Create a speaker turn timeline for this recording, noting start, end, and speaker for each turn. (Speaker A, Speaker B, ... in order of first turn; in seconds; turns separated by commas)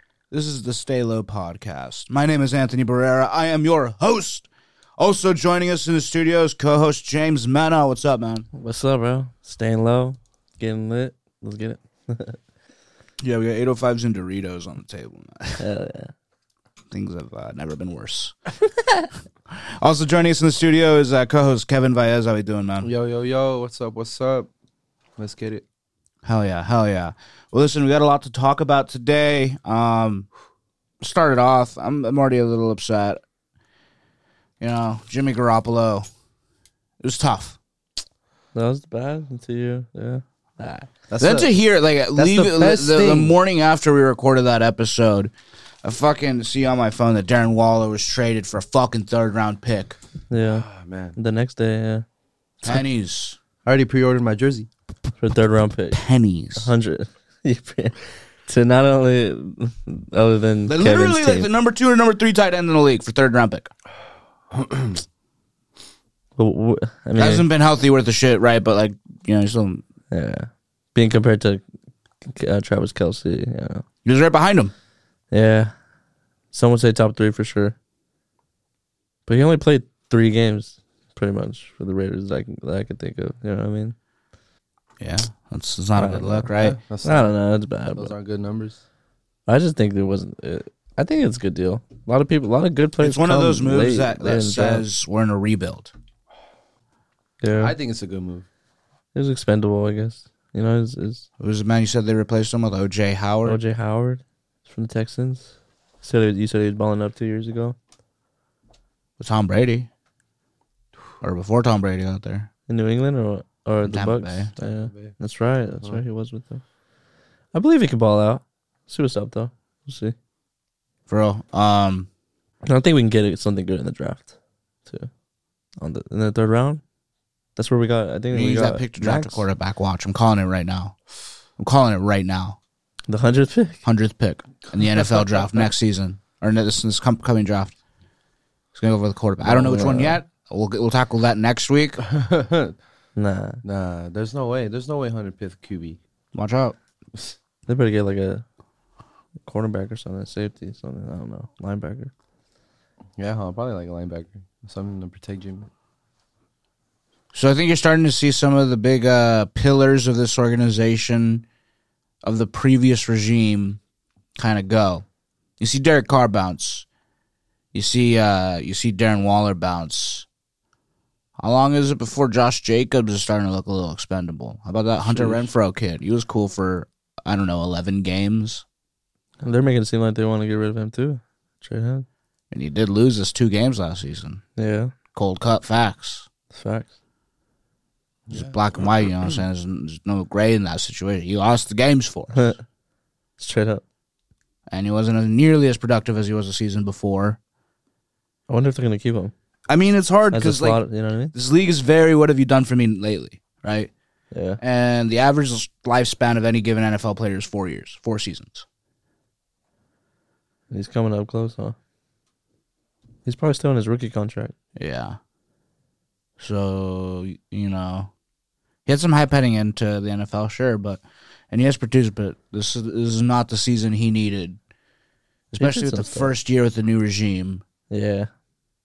Speaker A: 0.3-8.5, Speaker B: 8.5-12.4, Speaker A: 13.2-15.7, Speaker B: 15.6-16.1, Speaker A: 16.9-18.3, Speaker A: 19.5-22.9, Speaker C: 22.8-24.5, Speaker C: 25.2-25.6, Speaker A: 26.2-30.3, Speaker A: 31.0-33.2, Speaker A: 34.6-36.1, Speaker A: 37.0-37.6, Speaker B: 38.5-40.7, Speaker A: 40.6-45.3, Speaker C: 41.1-41.5, Speaker C: 42.1-43.4, Speaker A: 45.8-50.0, Speaker B: 50.3-52.0, Speaker C: 50.5-51.2, Speaker A: 52.6-53.4, Speaker C: 53.6-54.7, Speaker B: 55.2-56.0, Speaker A: 55.9-56.7, Speaker B: 56.5-61.5, Speaker A: 60.7-63.7, Speaker C: 64.5-65.0, Speaker B: 66.4-67.5, Speaker A: 67.2-69.8, Speaker B: 70.1-71.6, Speaker B: 72.2-73.8, Speaker A: 74.0-74.7, Speaker B: 75.3-75.7, Speaker B: 76.5-77.8, Speaker B: 79.2-84.0, Speaker A: 85.0-86.8, Speaker B: 86.0-86.5, Speaker C: 86.6-87.3, Speaker B: 87.0-88.1, Speaker C: 87.9-88.8, Speaker B: 89.5-94.8, Speaker A: 93.0-95.9, Speaker B: 97.4-97.7, Speaker C: 97.6-98.5, Speaker B: 99.1-101.2, Speaker A: 101.4-103.6, Speaker B: 103.4-107.8, Speaker A: 109.2-109.9, Speaker A: 111.2-112.5, Speaker B: 112.7-116.6, Speaker A: 113.8-114.5, Speaker C: 114.5-115.2, Speaker B: 117.5-120.1, Speaker A: 121.1-122.1, Speaker B: 122.6-124.3, Speaker B: 125.8-126.8, Speaker B: 127.5-129.4, Speaker A: 128.3-130.9, Speaker A: 131.6-132.6, Speaker B: 133.1-133.8, Speaker A: 133.8-137.7, Speaker A: 138.7-142.1, Speaker B: 139.4-140.2, Speaker C: 142.1-142.7, Speaker B: 143.2-143.6, Speaker C: 143.6-146.0, Speaker A: 146.3-146.8, Speaker B: 147.7-148.4, Speaker B: 149.4-152.1, Speaker C: 153.2-155.7, Speaker A: 157.3-161.4, Speaker A: 162.2-163.8, Speaker A: 164.4-165.0, Speaker A: 165.6-166.8, Speaker A: 167.7-170.2, Speaker A: 171.4-178.6, Speaker B: 175.0-175.5, Speaker B: 179.4-182.1, Speaker A: 182.5-184.4, Speaker B: 184.6-184.9, Speaker A: 185.1-186.3, Speaker B: 186.5-186.9, Speaker C: 188.3-188.5, Speaker A: 188.3-192.5, Speaker B: 193.4-193.8, Speaker A: 194.7-197.4, Speaker B: 198.5-199.3, Speaker A: 199.7-203.9, Speaker B: 200.3-201.3, Speaker B: 204.3-204.6, Speaker A: 204.6-208.6, Speaker B: 210.7-211.8, Speaker B: 213.2-214.5, Speaker A: 214.8-215.2, Speaker A: 216.4-218.1, Speaker A: 218.8-224.6, Speaker A: 225.5-227.6, Speaker B: 225.5-226.3, Speaker B: 227.9-228.3